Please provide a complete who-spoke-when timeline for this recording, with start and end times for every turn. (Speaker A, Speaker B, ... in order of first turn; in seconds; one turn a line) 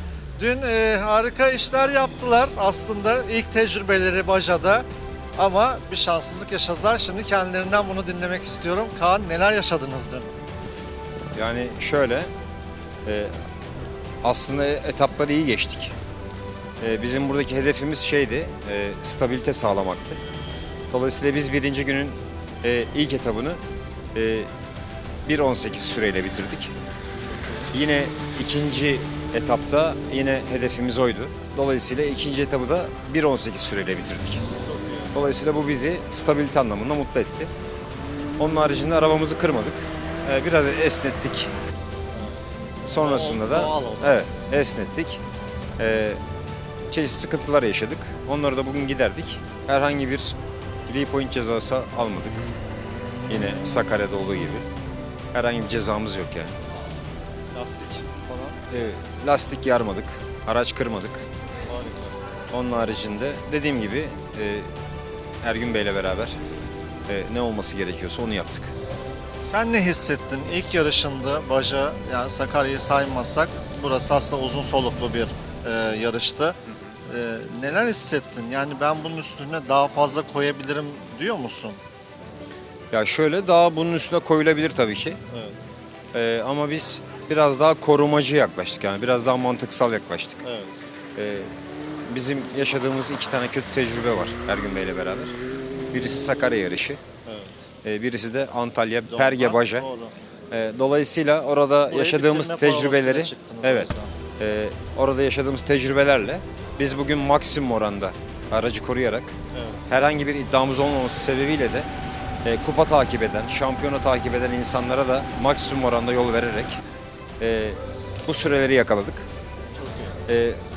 Speaker A: 0.3-4.8
Speaker A: 5.3-10.3
Speaker B: 11.3-12.3
Speaker B: 13.1-13.3
Speaker B: 14.2-15.9
Speaker B: 16.8-20.2
Speaker B: 20.9-23.6
Speaker B: 24.1-24.5
Speaker B: 25.2-26.7
Speaker A: 27.2-27.7
Speaker B: 27.7-34.4
Speaker A: 34.6-35.1
Speaker B: 35.1-37.5
Speaker B: 38.4-41.5
Speaker A: 42.1-42.4
Speaker B: 42.8-45.2
Speaker A: 43.0-44.2
Speaker B: 45.8-46.2
Speaker B: 46.9-50.4
Speaker B: 50.9-52.5
Speaker B: 53.3-54.6
Speaker B: 55.3-56.5
Speaker A: 57.5-58.6
Speaker B: 58.7-61.2
Speaker A: 61.7-62.1
Speaker B: 62.5-64.7
Speaker B: 65.4-66.4
Speaker B: 67.1-68.7
Speaker A: 69.4-81.8
Speaker B: 82.9-85.2
Speaker A: 85.3-85.5
Speaker B: 86.1-90.4
Speaker A: 90.4-90.7
Speaker B: 91.2-91.5
Speaker B: 92.1-95.3
Speaker B: 95.9-97.0
Speaker A: 97.2-97.5
Speaker B: 97.8-99.8
Speaker A: 99.1-100.1
Speaker B: 100.5-109.3
Speaker A: 101.9-104.1
Speaker A: 109.5-109.9
Speaker B: 109.9-111.9
Speaker B: 112.4-116.8
Speaker B: 117.4-119.3
Speaker A: 119.8-120.2
Speaker B: 120.3-120.6